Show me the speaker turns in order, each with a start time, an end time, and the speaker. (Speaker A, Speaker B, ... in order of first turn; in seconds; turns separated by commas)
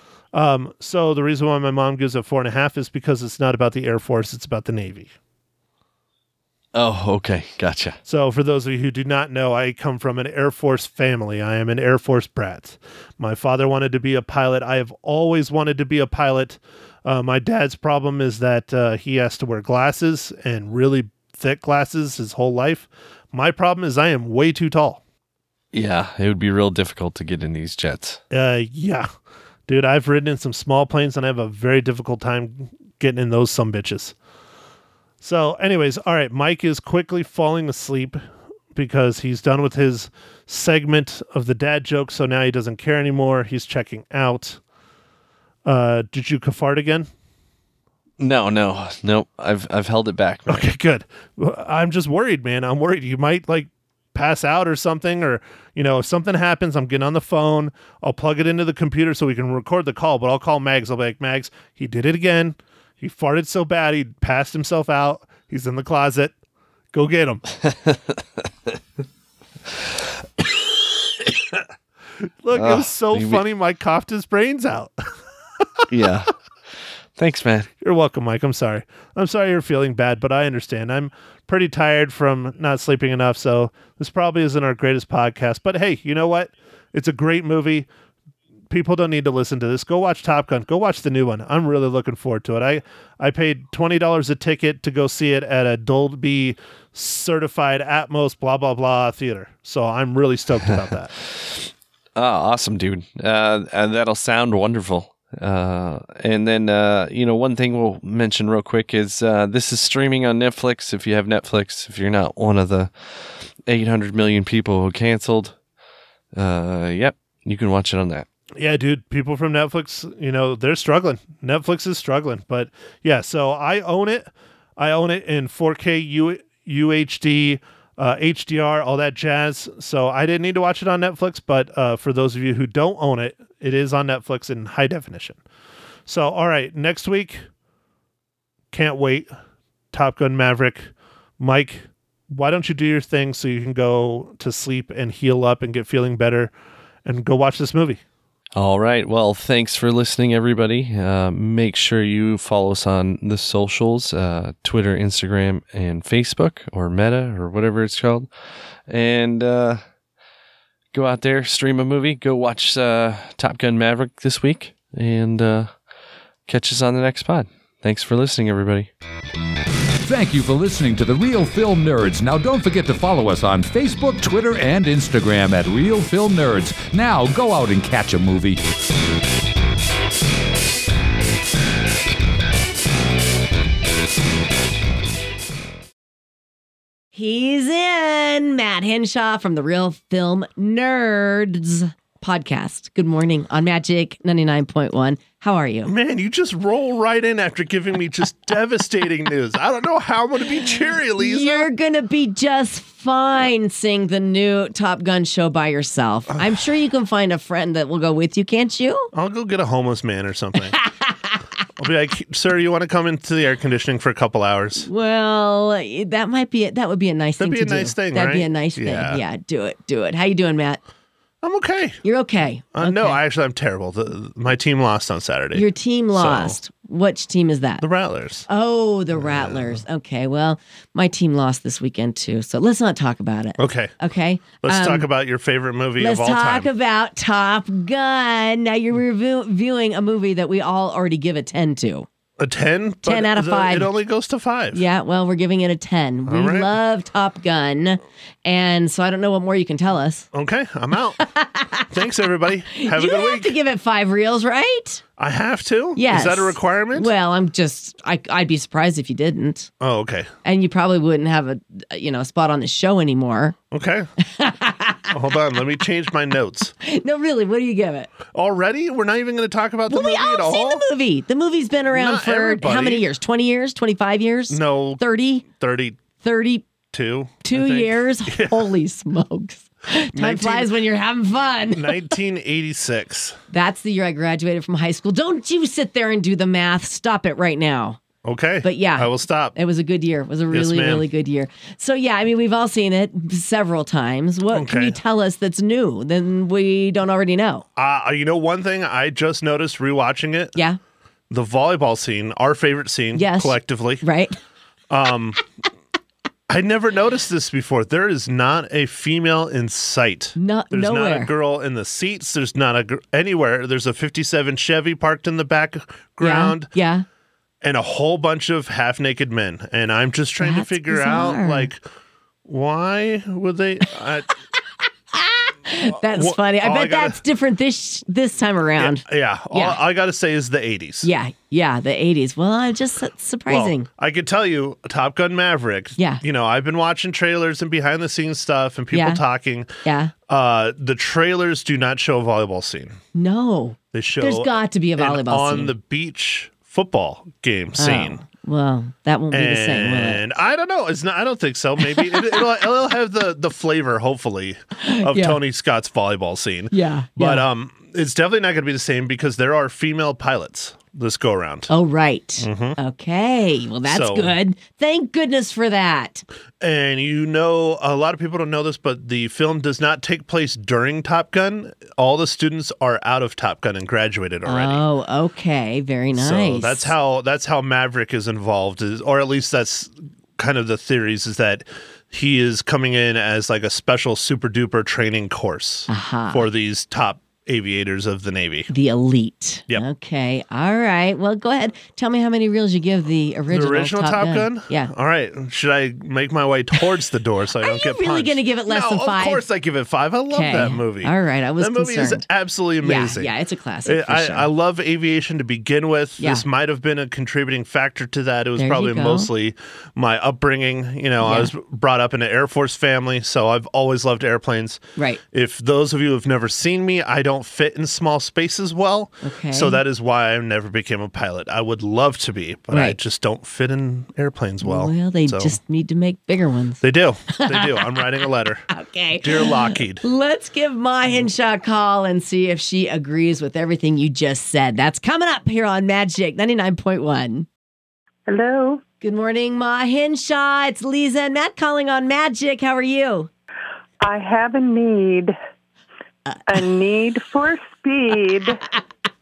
Speaker A: 0.3-5.1, Speaker B: 6.7-8.0, Speaker A: 8.1-25.0, Speaker B: 25.7-28.2, Speaker A: 28.3-29.1, Speaker A: 29.7-34.1, Speaker A: 35.2-38.2, Speaker A: 38.7-44.6, Speaker A: 45.6-47.1, Speaker B: 48.2-50.7, Speaker A: 50.5-66.3, Speaker A: 66.9-67.4, Speaker B: 67.6-68.7, Speaker B: 71.2-71.5, Speaker A: 72.4-74.9, Speaker B: 72.5-73.4, Speaker B: 75.9-77.7, Speaker A: 77.8-87.9, Speaker A: 88.7-101.1, Speaker B: 101.2-115.6, Speaker B: 116.3-118.2, Speaker A: 118.6-135.4, Speaker A: 136.1-137.4, Speaker A: 138.7-139.3, Speaker A: 139.9-146.5, Speaker A: 147.0-148.0, Speaker B: 148.5-159.8, Speaker B: 160.9-165.8, Speaker B: 166.4-168.9, Speaker C: 170.0-178.6, Speaker D: 187.1-195.9, Speaker A: 195.8-201.7, Speaker D: 201.2-209.1, Speaker A: 206.3-206.6, Speaker A: 209.1-210.8, Speaker D: 210.7-211.4, Speaker A: 211.8-214.9, Speaker D: 214.8-220.8, Speaker A: 217.4-219.2, Speaker A: 221.4-222.0, Speaker D: 222.0-223.2, Speaker A: 222.7-226.6, Speaker D: 225.5-227.8, Speaker A: 227.8-228.5, Speaker D: 228.5-235.1, Speaker A: 229.2-229.8, Speaker A: 233.6-233.9, Speaker A: 234.6-236.7, Speaker D: 236.0-242.1, Speaker A: 242.4-244.8, Speaker D: 243.0-243.9, Speaker D: 244.7-250.3, Speaker A: 246.3-246.7, Speaker A: 250.3-251.3, Speaker D: 251.2-255.0, Speaker A: 251.9-253.5, Speaker A: 255.2-257.1, Speaker D: 255.9-259.7, Speaker A: 259.8-260.3, Speaker D: 260.4-263.6, Speaker A: 263.7-264.1, Speaker D: 264.2-265.3, Speaker A: 265.1-266.7, Speaker D: 266.8-268.1, Speaker A: 268.3-270.8, Speaker D: 269.9-275.5, Speaker A: 271.9-273.0, Speaker A: 274.5-276.0, Speaker D: 276.1-276.6, Speaker A: 276.9-278.7, Speaker D: 277.4-282.1, Speaker A: 280.1-280.7, Speaker A: 281.7-283.4, Speaker D: 283.5-288.0, Speaker A: 288.2-289.6, Speaker D: 288.6-297.6, Speaker A: 290.5-291.0, Speaker A: 294.5-295.0, Speaker A: 297.8-300.6, Speaker A: 301.3-304.1, Speaker D: 303.1-304.4, Speaker A: 304.9-305.4, Speaker A: 306.5-316.7, Speaker D: 310.4-311.3, Speaker D: 316.2-317.0, Speaker A: 317.6-321.8, Speaker D: 320.4-321.7, Speaker A: 322.4-324.3, Speaker D: 325.1-329.8, Speaker A: 326.1-327.2, Speaker A: 328.8-331.1, Speaker D: 331.0-333.9, Speaker A: 333.5-339.7, Speaker D: 336.0-336.2, Speaker D: 338.9-339.2, Speaker D: 339.8-340.1, Speaker A: 340.3-343.0, Speaker D: 343.1-345.7, Speaker A: 343.9-348.2, Speaker D: 347.8-350.2, Speaker A: 349.3-361.7, Speaker D: 351.9-352.4, Speaker D: 354.8-355.4, Speaker D: 356.7-357.4, Speaker D: 361.7-366.2, Speaker A: 362.4-362.8, Speaker A: 363.9-364.4, Speaker A: 366.6-374.8, Speaker D: 374.4-376.9, Speaker A: 376.1-388.7, Speaker D: 385.9-386.4, Speaker D: 388.7-394.9, Speaker A: 393.5-403.3, Speaker D: 397.6-399.4, Speaker D: 400.3-402.2, Speaker D: 402.8-404.5, Speaker A: 403.8-425.6, Speaker D: 406.2-406.4, Speaker D: 408.6-409.3, Speaker D: 411.2-411.5, Speaker D: 419.2-419.8, Speaker D: 422.7-422.9, Speaker D: 424.6-428.1, Speaker A: 426.8-428.7, Speaker D: 428.7-437.5, Speaker A: 429.2-430.0, Speaker E: 438.3-438.8, Speaker D: 439.0-443.3, Speaker E: 444.0-445.3, Speaker D: 446.3-446.6, Speaker E: 446.5-448.6